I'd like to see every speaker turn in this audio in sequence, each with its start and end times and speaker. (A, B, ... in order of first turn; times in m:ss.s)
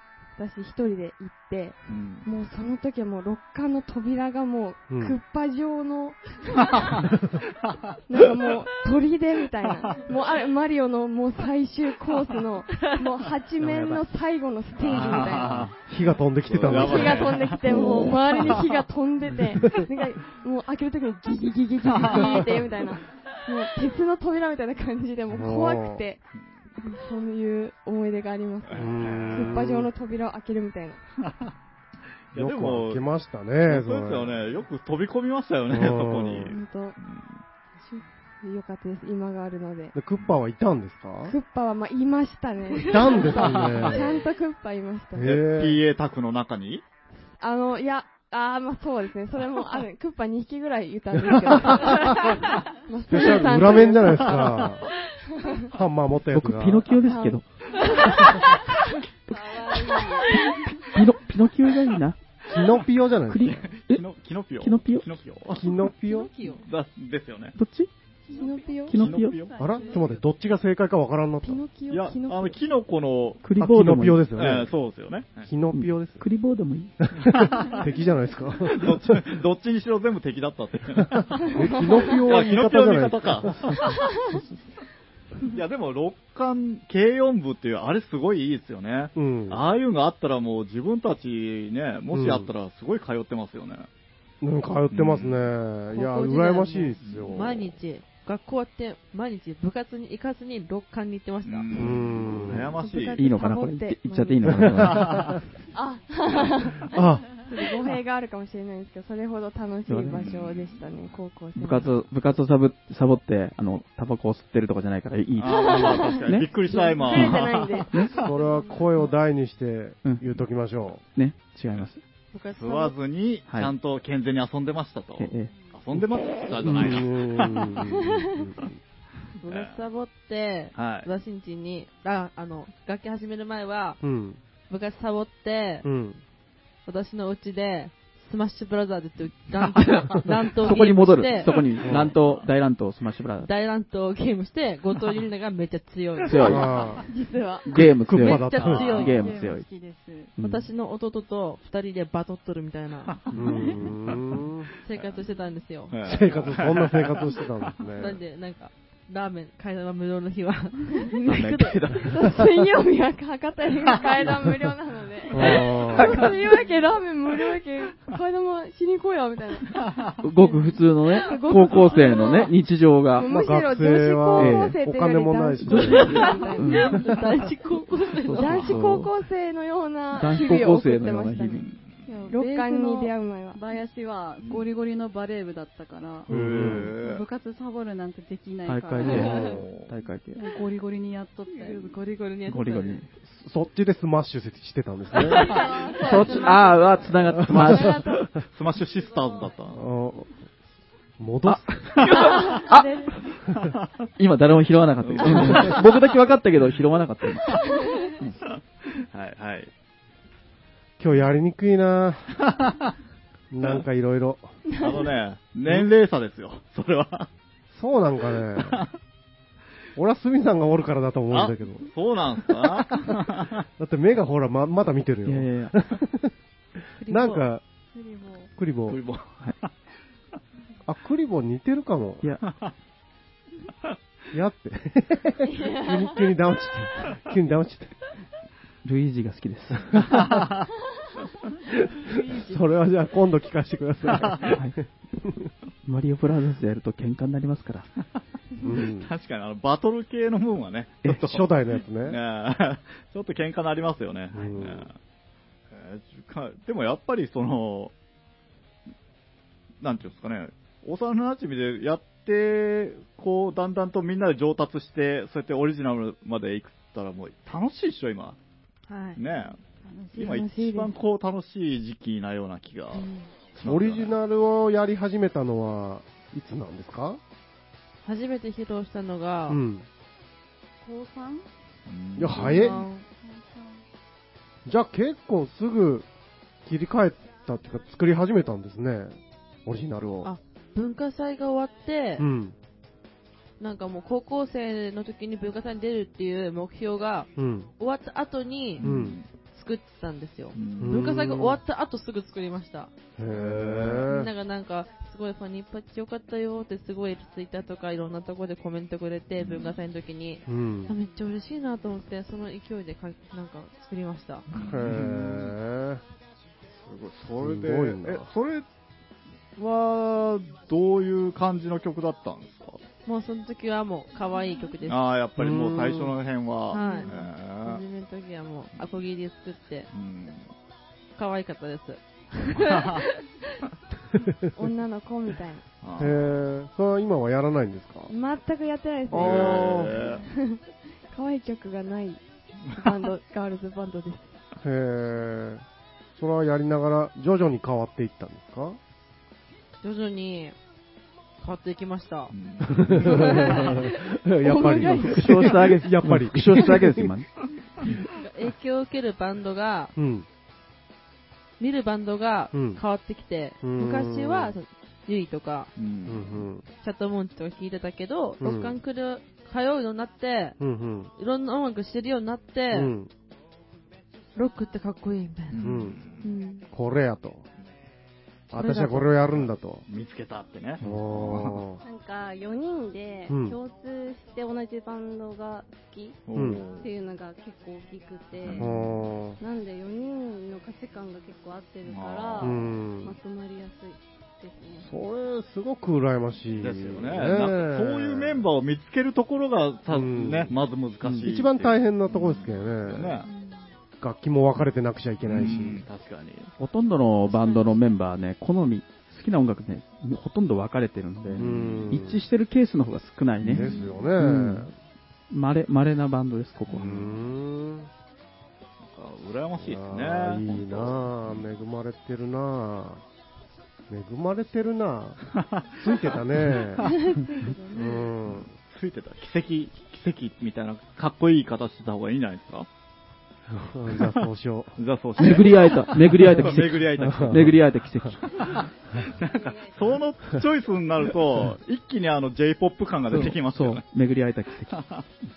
0:00.4-0:07.1 A
0:01.9-0:02.3 B
0:04.9-0:05.2 C
0:08.1-0:15.7 A
0:12.7-0:13.1 D
0:13.7-0:14.0 C
0:14.8-0:15.8 B
0:15.9-0:18.6 C
0:16.4-0:18.7 B
0:16.7-0:26.2 A
0:21.9-0:22.6 B
0:25.3-0:26.0 C
0:26.8-0:31.0 A
0:28.7-0:29.7 B
0:28.8-0:29.9 C
0:31.2-0:31.5 B
0:32.3-0:33.1 B
0:32.4-0:34.5 C
0:33.6-0:37.4 B
0:35.7-0:36.6 C
0:36.5-0:37.0 A
0:37.9-0:40.0 A
0:39.9-0:41.4 C
0:41.2-0:45.3 A
0:42.8-0:44.1 C
0:43.4-0:44.2 B
0:45.2-0:45.8 C
0:45.2-0:46.8 B
0:47.4-0:54.7 A
0:51.3-0:52.2 C
0:53.1-0:54.9 C
0:55.3-0:55.7 A
0:55.7-0:56.9 C
0:56.3-0:57.4 E
0:57.0-0:58.8 A
0:57.8-0:58.5 D
0:58.0-0:58.4 E
0:59.4-1:00.3 F
1:00.3-1:00.5 D
1:00.3-1:02.2 E
1:02.5-1:03.7 C
1:03.3-1:04.1 E
1:03.4-1:05.7 B
1:04.6-1:05.1 E
1:05.5-1:06.3 C
1:06.1-1:06.6 D
1:06.6-1:07.6 B
1:07.6-1:07.9 E
1:08.3-1:10.3 G
1:08.3-1:09.0 A
1:08.9-1:09.4 E
1:08.9-1:09.6 B
1:09.6-1:11.6 C
1:11.4-1:12.6 A
1:11.9-1:13.4 B
1:13.4-1:14.3 E
1:13.6-1:14.7 C
1:14.4-1:15.5 B
1:15.4-1:16.3 C
1:15.7-1:17.0 E
1:17.0-1:19.2 C
1:17.2-1:17.9 B
1:18.7-1:24.0 B
1:21.5-1:23.8 C
1:21.8-1:22.1 A
1:25.5-1:33.9 B
1:29.2-1:29.6 C
1:32.1-1:32.5 C
1:34.4-1:37.6 C
1:34.9-1:35.5 B
1:35.9-1:42.0 D
1:37.0-1:37.7 B
1:41.4-1:43.2 B
1:41.7-1:42.8 C
1:42.5-1:45.0 A
1:43.2-1:45.2 E
1:44.5-1:45.4 C
1:44.9-1:45.3 B
1:45.7-1:51.9 A
1:46.9-1:47.3 C
1:49.9-1:50.2 E
1:50.2-1:50.9 B
1:51.6-1:56.5 E
1:55.4-1:57.9 B
1:55.5-1:58.2 A
1:57.1-1:58.1 E
1:58.1-2:01.0 C
1:58.2-1:59.2 G
2:01.2-2:02.0 E
2:02.3-2:03.0 D
2:02.5-2:07.8 B
2:05.2-2:05.5 E
2:05.5-2:05.8 G
2:06.6-2:07.0 E
2:06.7-2:08.8 C
2:09.4-2:14.0 D
2:09.5-2:09.8 B
2:10.8-2:11.1 B
2:14.0-2:14.4 C
2:14.7-2:15.9 D
2:15.8-2:16.2 C
2:16.9-2:21.7 D
2:20.6-2:23.5 E
2:21.8-2:22.1 C
2:21.9-2:22.4 B
2:23.4-2:26.9 D
2:26.2-2:26.7 E
2:26.4-2:27.0 C
2:27.1-2:27.7 A
2:27.7-2:29.7 E
2:27.8-2:29.0 C
2:28.1-2:29.4 D
2:28.7-2:30.3 G
2:30.4-2:30.7 E
2:30.4-2:33.2 D
2:33.1-2:34.2 B
2:33.3-2:34.7 C
2:33.4-2:33.7 G
2:34.8-2:35.9 D
2:34.9-2:35.2 B
2:35.9-2:37.7 B
2:36.0-2:38.2 C
2:38.0-2:42.0 D
2:41.2-2:42.5 E
2:42.0-2:49.9 A
2:45.3-2:46.2 C
2:45.4-2:46.3 E
2:50.2-2:53.3 E
2:51.1-2:52.5 A
2:53.2-2:57.2 A
2:53.2-2:56.2 C
2:54.4-2:54.8 E
2:55.7-2:57.0 E
2:55.8-2:58.8 D
2:58.2-2:59.1 E
2:58.4-3:01.7 A
3:00.2-3:01.7 E
3:01.7-3:02.3 B
3:02.1-3:09.7 G
3:02.3-3:03.6 A
3:04.4-3:04.7 B
3:06.3-3:07.2 B
3:06.3-3:06.9 C
3:08.7-3:10.4 E
3:09.0-3:09.9 B
3:09.1-3:09.5 C
3:10.3-3:12.0 G
3:11.5-3:13.0 D
3:12.5-3:13.1 E
3:13.2-3:15.5 C
3:15.2-3:15.7 D
3:15.4-3:17.0 G
3:16.0-3:18.2 E
3:16.2-3:16.5 A
3:17.3-3:18.3 A
3:17.4-3:17.9 C
3:18.5-3:19.9 B
3:19.7-3:20.4 C
3:21.2-3:22.0 C
3:21.5-3:23.0 E
3:22.1-3:23.2 A
3:24.2-3:27.6 E
3:25.0-3:25.9 B
3:27.7-3:28.1 A
3:28.9-3:29.7 B
3:31.0-3:32.4 C
3:32.4-3:32.9 B
3:33.5-3:34.5 C
3:34.7-3:35.1 A
3:34.8-3:37.3 B
3:37.7-3:38.8 C
3:40.0-3:41.9 C
3:41.3-3:43.6 B
3:42.5-3:42.8 C
3:43.8-3:46.3 C
3:45.3-3:45.7 E
3:47.0-3:47.5 D
3:47.1-3:47.6 C
3:47.9-3:48.5 G
3:48.6-3:49.0 C
3:48.9-3:49.7 B
3:50.9-3:52.3 C
3:52.4-3:52.7 B
3:54.3-3:58.0 C
3:55.6-3:56.0 A
3:58.8-4:00.0 E
4:00.1-4:00.7 B
4:02.2-4:02.5 D
4:02.4-4:05.5 C
4:04.2-4:04.5 B
4:05.8-4:07.9 E
4:08.6-4:09.1 C
4:08.7-4:11.5 B
4:11.1-4:12.2 C
4:12.0-4:15.0 B
4:14.3-4:14.9 C
4:15.7-4:17.9 B
4:19.8-4:28.4 B
4:28.9-4:29.2 D
4:29.2-4:29.6 B
4:29.8-4:30.6 G
4:30.2-4:34.1 B
4:30.2-4:30.8 A
4:32.9-4:33.3 D
4:33.6-4:37.2 C
4:38.0-4:39.6 D
4:39.5-4:39.9 C
4:40.8-4:41.5 G
4:41.9-4:42.8 B
4:42.2-4:42.8 C
4:42.3-4:42.6 G
4:42.5-4:43.0 D
4:43.2-4:43.8 G
4:44.7-4:46.1 C
4:46.6-4:50.3 C
4:50.2-4:52.2 D
4:52.2-4:52.6 C
4:53.6-5:02.9 D
4:57.4-4:57.7 C
4:58.8-4:59.3 B
4:58.8-4:59.2 C
5:00.6-5:01.0 B
5:00.8-5:01.6 C
5:03.2-5:04.3 C
5:03.3-5:04.1 B
5:04.0-5:14.5 D
5:09.4-5:09.8 B
5:10.5-5:10.9 C
5:14.5-5:15.5 B
5:14.5-5:16.0 C
5:16.8-5:18.6 B
5:17.4-5:18.3 C
5:19.6-5:22.8 B
5:23.0-5:25.0 D
5:24.9-5:27.8 B
5:25.4-5:26.2 C
5:26.7-5:29.9 D
5:26.8-5:27.1 A
5:29.9-5:30.5 B
5:31.2-5:33.6 D
5:32.6-5:33.0 B
5:34.5-5:35.6 A
5:35.8-5:36.3 B
5:36.0-5:38.1 C
5:38.1-5:44.4 A
5:39.1-5:39.9 C
5:39.1-5:40.2 B
5:44.6-5:45.6 C
5:46.2-5:48.8 C
5:49.8-5:50.6 D
5:51.4-5:52.3 D
5:52.3-5:53.6 B
5:52.7-5:57.1 C
5:53.0-5:54.0 D
5:54.4-5:55.5 A
5:54.5-5:57.3 E
5:58.2-5:59.9 D
6:00.0-6:00.3 C
6:01.6-6:05.7 D
6:02.5-6:02.8 C
6:03.6-6:04.6 C
6:05.8-6:06.5 B
6:06.1-6:06.6 C
6:06.8-6:10.6 D
6:08.4-6:08.8 C
6:10.6-6:11.1 C
6:11.2-6:12.9 D
6:12.7-6:13.1 C
6:14.4-6:15.7 D
6:15.5-6:16.2 B
6:15.6-6:16.0 C
6:16.7-6:17.4 C
6:18.5-6:19.8 C
6:18.5-6:19.1 D
6:19.3-6:21.6 B
6:20.8-6:21.8 C
6:21.8-6:26.2 F
6:23.3-6:23.6 C
6:26.3-6:26.9 B
6:26.4-6:26.6 C
6:26.8-6:28.7 F
6:28.4-6:28.8 B
6:28.6-6:29.4 C
6:29.4-6:34.9 F
6:31.9-6:32.6 B
6:32.4-6:33.2 C
6:34.8-6:38.5 C
6:36.6-6:43.3 B
6:39.9-6:43.2 C
6:43.3-6:43.6 G
6:44.0-6:45.8 C
6:45.2-6:46.5 B
6:46.6-6:53.7 E
6:51.3-6:51.9 B
6:51.4-6:52.2 C
6:53.4-6:53.9 B
6:53.5-6:54.7 C
6:54.2-6:54.7 E
6:55.3-6:56.9 E
6:56.7-6:57.1 B
6:56.7-6:57.9 C
6:58.8-7:01.5 B
6:59.6-7:03.0 C
7:03.9-7:06.8 C
7:05.3-7:06.8 B
7:06.8-7:08.1 A
7:07.7-7:08.5 C
7:08.3-7:12.7 B
7:13.5-7:14.7 C
7:14.8-7:17.6 B
7:15.2-7:18.2 E
7:16.2-7:18.1 C
7:18.3-7:23.8 B
7:19.2-7:20.0 F
7:23.1-7:24.8 E
7:24.7-7:25.1 B